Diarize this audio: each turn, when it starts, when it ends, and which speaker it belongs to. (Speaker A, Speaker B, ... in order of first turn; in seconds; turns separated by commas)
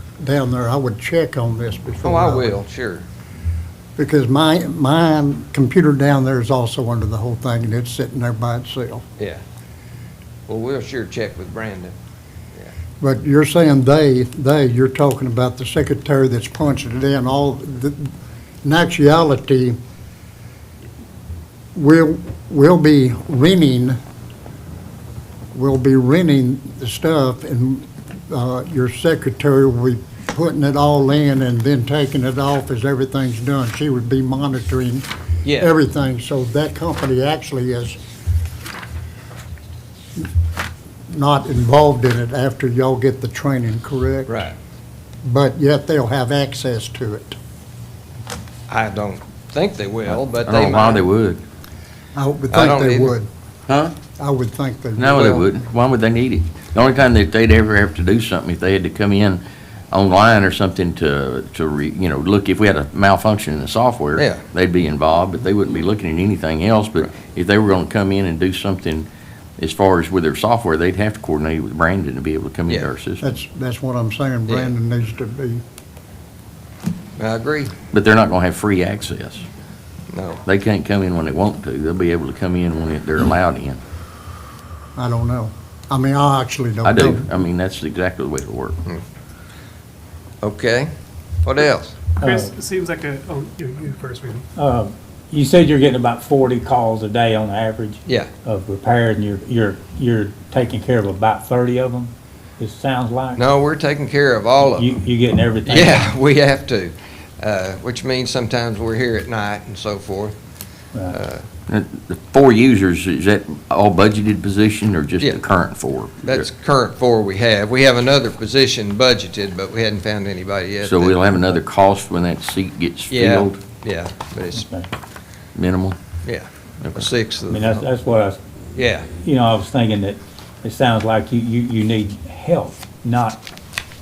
Speaker A: 0.2-2.6, Speaker B: 2.0-3.1, Speaker A: 4.0-9.0, Speaker B: 10.5-11.9, Speaker A: 13.0-18.1, Speaker A: 18.6-19.8, Speaker A: 21.8-24.0, Speaker A: 25.5-35.1, Speaker B: 35.4-35.7, Speaker A: 35.6-38.0, Speaker A: 41.1-44.4, Speaker B: 44.3-44.5, Speaker A: 45.2-47.4, Speaker B: 48.7-51.1, Speaker C: 50.1-51.4, Speaker A: 52.1-53.3, Speaker B: 52.5-53.1, Speaker C: 53.7-54.0, Speaker A: 54.2-55.2, Speaker C: 55.0-73.2, Speaker B: 55.1-55.5, Speaker B: 64.2-64.4, Speaker A: 73.2-75.6, Speaker B: 77.2-77.7, Speaker C: 77.9-79.5, Speaker B: 80.1-80.4, Speaker C: 80.5-83.8, Speaker A: 85.0-87.3, Speaker C: 86.8-88.8, Speaker B: 90.4-90.9, Speaker B: 91.5-92.0, Speaker D: 92.2-92.6, Speaker E: 92.2-94.5, Speaker D: 94.5-103.4, Speaker B: 103.4-104.9, Speaker D: 104.7-106.1, Speaker B: 105.7-110.4, Speaker B: 111.1-111.5, Speaker C: 111.7-116.5, Speaker B: 116.2-121.6, Speaker C: 120.8-123.6, Speaker B: 123.1-124.7, Speaker D: 124.6-124.9, Speaker C: 125.5-126.0, Speaker B: 126.2-127.8, Speaker C: 126.8-127.1, Speaker D: 127.5-128.4, Speaker B: 128.8-129.1, Speaker D: 129.2-133.4